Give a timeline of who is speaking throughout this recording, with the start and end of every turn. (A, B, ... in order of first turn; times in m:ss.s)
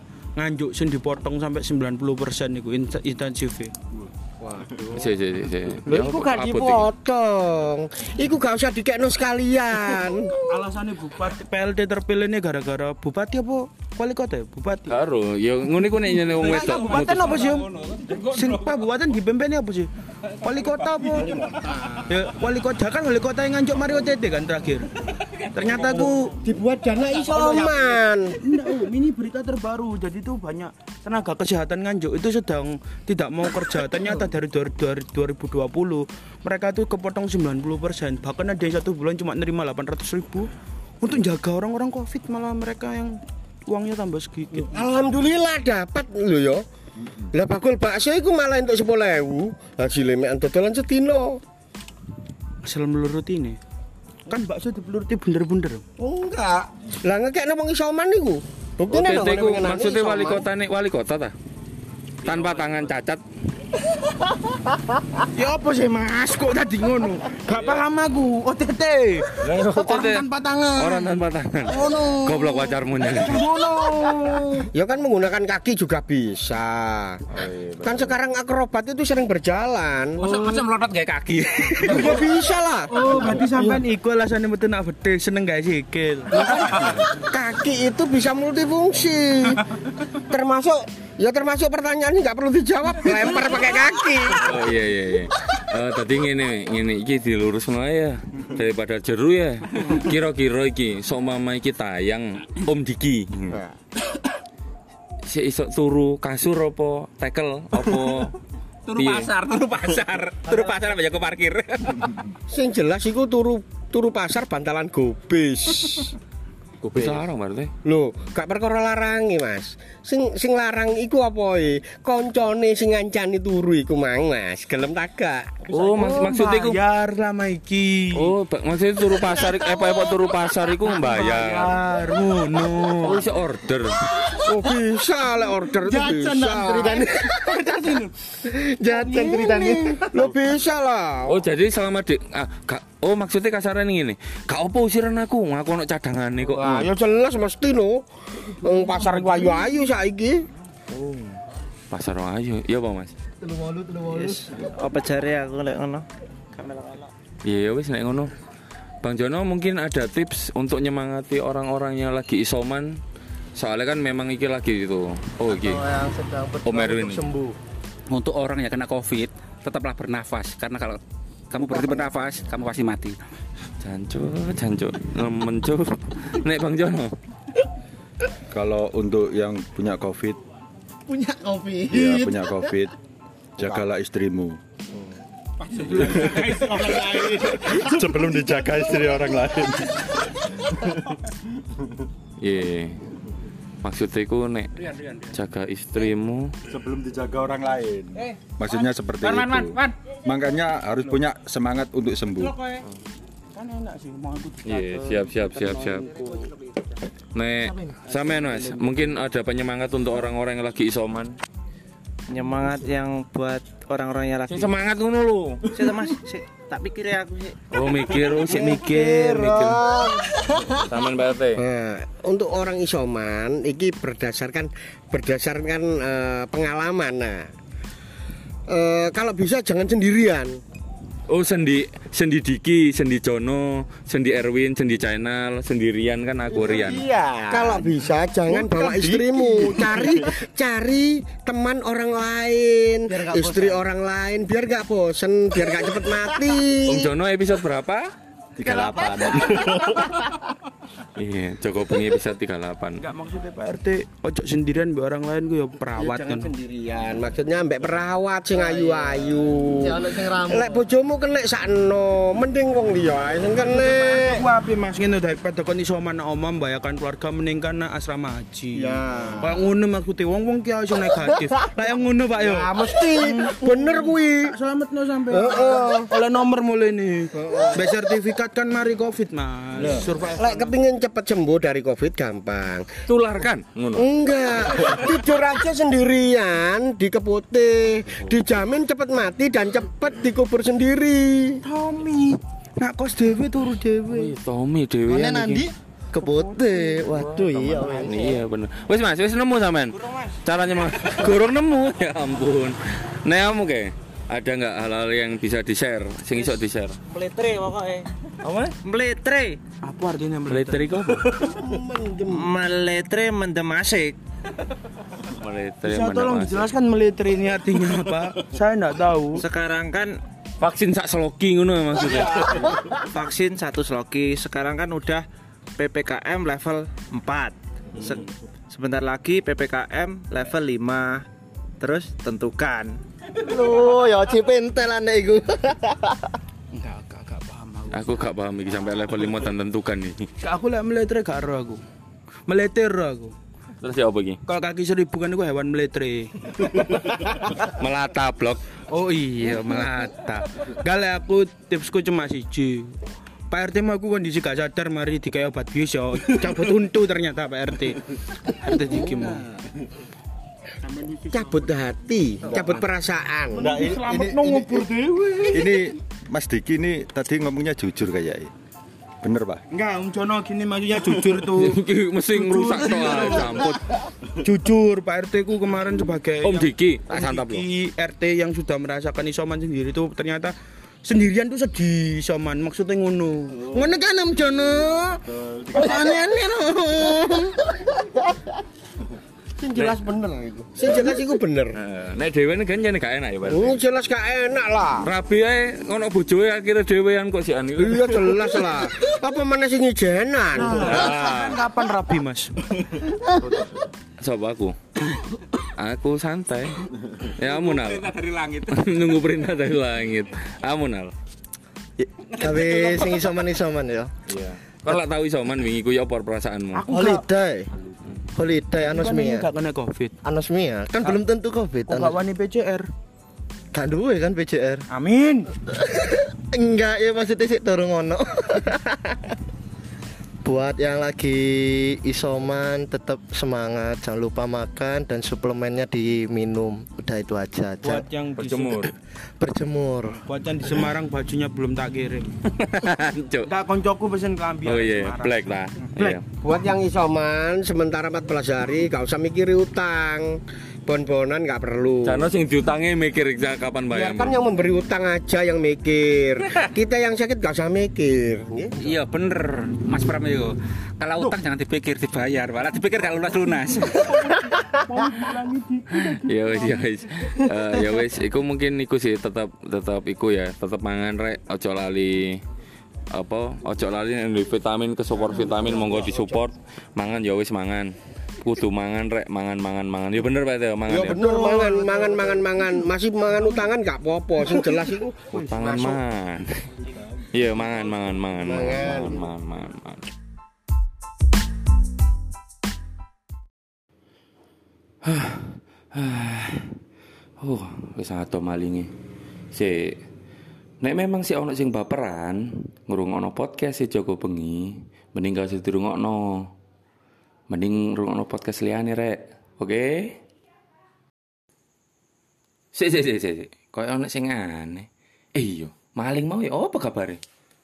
0:00.4-0:03.7 A
0:04.4-0:04.8 B
0:04.9-0:06.9 C
0:05.8-0:10.4 B
0:10.4-0:14.9 A
0:14.9-0:17.4 C
0:16.3-0:21.5 A
0:17.6-0:18.4 D
0:22.0-0:24.9 A
0:25.5-0:26.4 A
0:26.4-0:28.4 B
0:27.3-0:27.8 A
0:28.4-0:44.7 A
0:44.5-0:46.6 B
0:47.3-0:51.4 B
0:52.6-0:53.6 A
0:54.3-0:55.8 A
0:56.0-1:00.4 B
0:58.9-1:01.3 C
1:02.2-1:03.2 C
1:02.3-1:02.8 D
1:05.3-1:14.7 A
1:09.4-1:13.4 C
1:14.7-1:17.2 B
1:17.3-1:18.2 C
1:17.8-1:20.2 B
1:20.2-1:22.2 D
1:21.8-1:23.8 B
1:22.9-1:26.9 A
1:26.4-1:26.8 D
1:27.2-1:34.7 B
1:34.4-1:43.6 C
1:45.2-1:48.3 C
1:48.8-1:52.1 D
1:49.0-1:49.3 C
1:52.5-1:56.2 B
1:56.8-1:57.7 C
1:57.8-2:05.6 B
2:05.7-2:06.8 C
2:05.7-2:08.3 A
2:08.1-2:11.8 C
2:10.8-2:13.2 A
2:12.7-2:14.0 C
2:14.4-2:17.0 B
2:15.8-2:20.2 E
2:17.1-2:18.1 A
2:18.9-2:19.9 A
2:20.0-2:21.4 B
2:21.3-2:26.9 C
2:26.5-2:30.4 B
2:28.7-2:29.8 A
2:30.9-2:31.4 C
2:31.9-2:33.1 C
2:33.4-2:34.7 E
2:34.1-2:37.1 F
2:37.4-2:38.3 C
2:39.0-2:43.0 C
2:43.6-2:45.8 C
2:45.5-2:47.6 E
2:46.6-2:47.2 C
2:48.1-2:51.0 D
2:51.5-2:53.2 D
2:51.6-2:52.0 E
2:53.8-2:57.1 C
2:58.5-3:00.4 G
3:01.1-3:02.8 E
3:01.9-3:02.9 G
3:03.6-3:04.6 G
3:05.8-3:07.4 D
3:05.9-3:11.0 G
3:12.4-3:13.0 C
3:13.8-3:16.5 C
3:14.8-3:15.3 D
3:16.7-3:22.5 G
3:19.2-3:20.0 D
3:23.5-3:26.5 A
3:24.6-3:26.0 C
3:27.3-3:31.4 C
3:27.6-3:28.0 E
3:28.3-3:28.9 A
3:32.3-3:34.7 F
3:34.5-3:35.6 C
3:35.7-3:38.4 F
3:37.7-3:39.8 C
3:38.4-3:40.4 B
3:40.8-3:41.6 C
3:41.6-3:47.5 B
3:48.7-3:50.6 B
3:51.3-3:57.0 C
3:56.6-3:56.9 E
3:56.6-4:07.1 B
3:57.5-3:57.8 E
3:58.6-3:59.8 E
3:58.8-4:00.1 G
4:03.1-4:03.8 E
4:06.9-4:08.1 C
4:08.6-4:10.1 G
4:08.6-4:10.3 E
4:11.2-4:13.0 C
4:13.0-4:16.5 A
4:16.0-4:24.5 B
4:18.6-4:19.0 E
4:19.8-4:20.8 E
4:23.7-4:40.8 A
4:28.8-4:29.6 B
4:32.4-4:34.5 B
4:35.3-4:36.1 B
4:37.3-4:37.9 B
4:39.8-4:42.9 B
4:43.1-4:44.1 C
4:44.0-4:51.6 B
4:51.6-4:54.3 A
4:54.1-4:55.7 C
4:55.1-4:58.4 E
4:56.1-4:57.1 A
4:57.1-5:07.0 C
4:59.9-5:00.4 F
5:06.3-5:08.1 F
5:08.4-5:08.7 A
5:08.8-5:09.6 F
5:09.8-5:11.3 A
5:10.5-5:11.3 C
5:11.4-5:12.5 B
5:12.3-5:14.2 F
5:15.3-5:16.7 C
5:15.8-5:19.4 A
5:19.4-5:20.2 F
5:20.6-5:22.6 C
5:22.4-5:25.2 F
5:25.8-5:31.2 F
5:31.8-5:33.0 F
5:33.4-5:36.4 E
5:36.7-5:38.2 A
5:37.9-5:40.2 C
5:40.4-5:41.8 A
5:42.5-5:43.3 A
5:43.8-5:44.4 C
5:44.5-5:47.2 A
5:47.6-5:48.6 C
5:48.9-5:53.0 A
5:53.5-5:59.5 A
6:00.9-6:01.2 A
6:01.3-6:03.8 B
6:03.6-6:05.8 A
6:03.6-6:08.5 G
6:09.2-6:09.6 G
6:09.7-6:11.8 A
6:11.6-6:13.9 C
6:12.3-6:13.8 A
6:14.4-6:27.6 A
6:16.4-6:17.6 C
6:25.3-6:26.2 G
6:29.6-6:31.8 B
6:31.7-6:33.8 C
6:33.5-6:35.1 B
6:35.0-6:38.4 C
6:37.8-6:41.0 B
6:40.6-6:42.6 A
6:40.8-6:41.6 C
6:43.4-6:43.7 A
6:44.2-6:44.8 C
6:45.6-6:48.1 C
6:47.5-6:48.8 D
6:48.7-6:51.1 C
6:52.4-6:54.1 E
6:52.5-6:53.0 D
6:54.3-6:56.8 C
6:56.7-6:57.2 A
6:56.9-6:57.7 E
6:58.3-6:59.5 E
6:58.8-7:00.1 A
7:00.2-7:02.2 E
7:01.8-7:02.8 A
7:03.7-7:04.8 E
7:04.9-7:05.5 A
7:05.7-7:09.4 E
7:10.4-7:18.0 E
7:17.8-7:18.9 A
7:18.4-7:18.9 C
7:19.4-7:20.2 E
7:20.2-7:22.3 A
7:22.6-7:23.5 C
7:23.4-7:26.2 A
7:24.6-7:26.2 C
7:26.4-7:32.3 B
7:32.0-7:34.4 C
7:33.9-7:38.8 B
7:38.8-7:44.1 D
7:44.1-7:46.8 A
7:46.0-7:52.4 C
7:53.1-8:01.2 C
7:55.3-7:56.0 A
8:00.9-8:05.9 B
8:01.2-8:02.4 A
8:05.3-8:06.6 C
8:05.3-8:05.9 A
8:07.3-8:10.0 C
8:08.4-8:09.3 B
8:15.0-8:16.7 C
8:17.4-8:18.9 C
8:19.5-8:20.0 C
8:20.8-8:26.5 C
8:27.5-8:30.2 C
8:32.7-8:37.2 C